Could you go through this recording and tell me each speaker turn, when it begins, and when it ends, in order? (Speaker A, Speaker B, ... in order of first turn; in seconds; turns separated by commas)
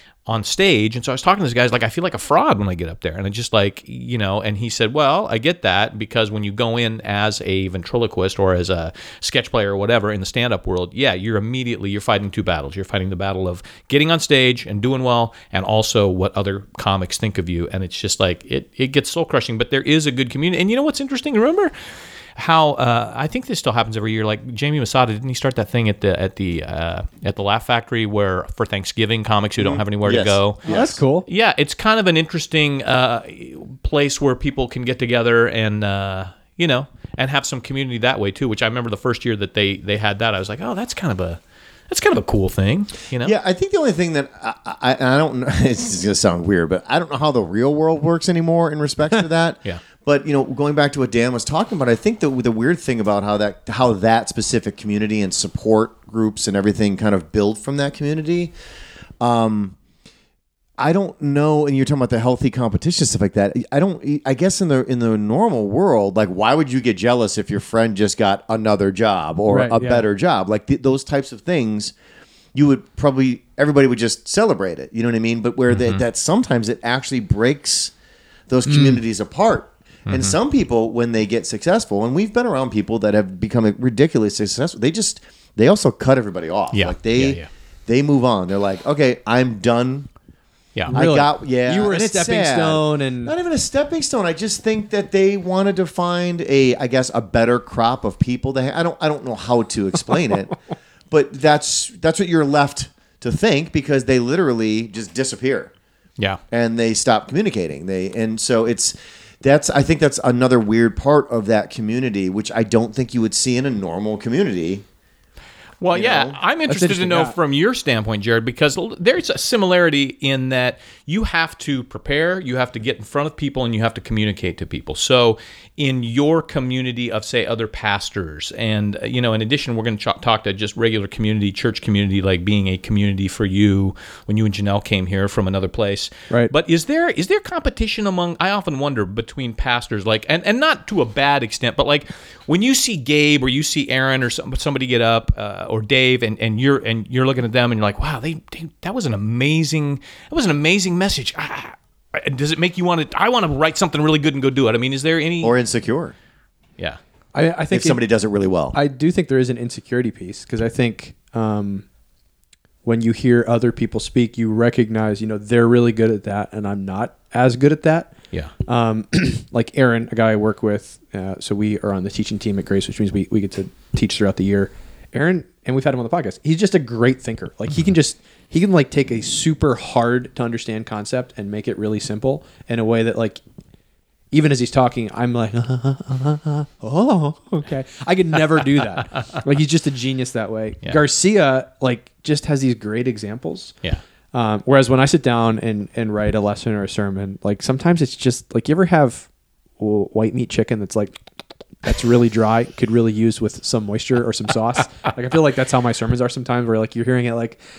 Speaker A: 0.2-21.7, Speaker A: 22.4-43.3, Speaker B: 29.6-31.0, Speaker C: 30.6-31.2, Speaker B: 43.2-58.5, Speaker B: 59.2-59.8, Speaker B: 60.8-71.9, Speaker C: 69.5-70.0, Speaker B: 72.5-77.9, Speaker A: 75.7-76.0, Speaker B: 78.5-90.1, Speaker C: 78.7-79.0, Speaker A: 80.1-80.4, Speaker A: 86.7-87.5, Speaker C: 90.9-93.3, Speaker B: 90.9-100.6, Speaker B: 101.1-105.7, Speaker B: 106.5-114.8, Speaker A: 115.8-155.6, Speaker B: 115.9-116.4, Speaker C: 116.7-117.3, Speaker B: 155.4-156.1, Speaker C: 157.3-158.0, Speaker B: 157.7-158.8, Speaker C: 158.7-161.8, Speaker C: 162.8-168.1, Speaker C: 168.6-183.4, Speaker C: 184.3-193.7, Speaker C: 194.3-199.3, Speaker C: 199.8-201.2, Speaker C: 201.8-207.6